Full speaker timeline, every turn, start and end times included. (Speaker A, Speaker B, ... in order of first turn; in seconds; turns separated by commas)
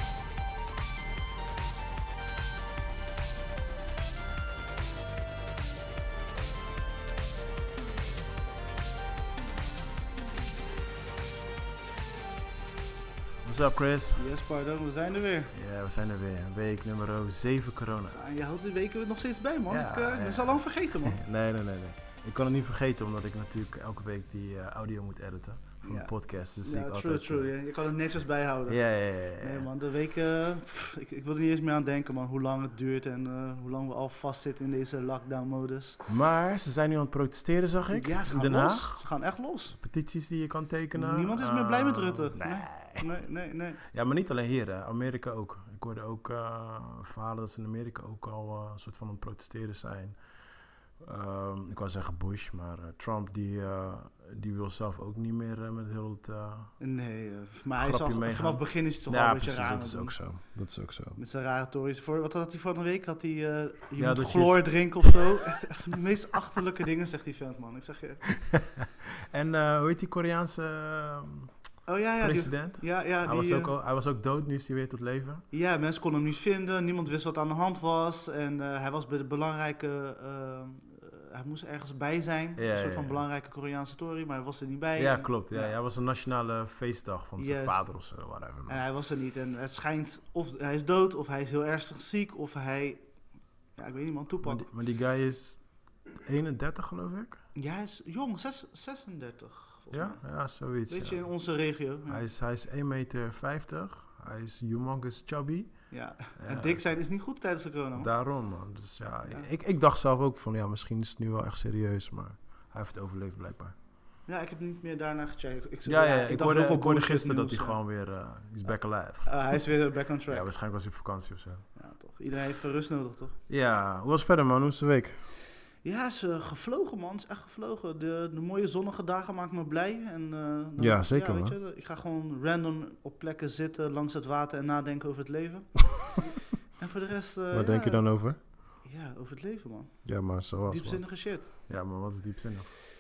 Speaker A: 13.4-14.2, Speaker B: 14.2-15.5, Speaker A: 15.5-18.2, Speaker B: 18.1-21.2, Speaker A: 19.7-27.5, Speaker B: 25.8-36.1, Speaker A: 28.7-29.7, Speaker A: 36.1-39.0, Speaker B: 37.9-39.8, Speaker A: 39.8-43.1, Speaker B: 41.0-43.8, Speaker A: 43.9-50.2, Speaker A: 51.0-56.7, Speaker B: 56.8-60.4, Speaker A: 57.8-61.2, Speaker B: 61.2-68.6, Speaker A: 64.0-65.1, Speaker A: 68.5-71.5, Speaker B: 71.9-73.7, Speaker A: 72.2-75.4, Speaker B: 75.5-85.8, Speaker A: 82.6-83.2, Speaker A: 85.0-88.8, Speaker B: 87.4-88.0, Speaker B: 88.7-93.1, Speaker B: 93.8-94.7, Speaker A: 94.4-97.4, Speaker B: 97.5-102.2, Speaker A: 99.9-101.3, Speaker A: 102.1-106.8, Speaker B: 105.9-108.1, Speaker A: 108.0-113.8, Speaker B: 114.3-117.8, Speaker A: 115.9-119.6, Speaker B: 119.2-120.5, Speaker A: 120.3-121.7, Speaker B: 121.8-123.4, Speaker A: 123.5-125.2, Speaker B: 125.8-138.1, Speaker A: 130.8-131.6, Speaker A: 137.5-138.4, Speaker B: 138.8-141.5, Speaker A: 140.1-142.7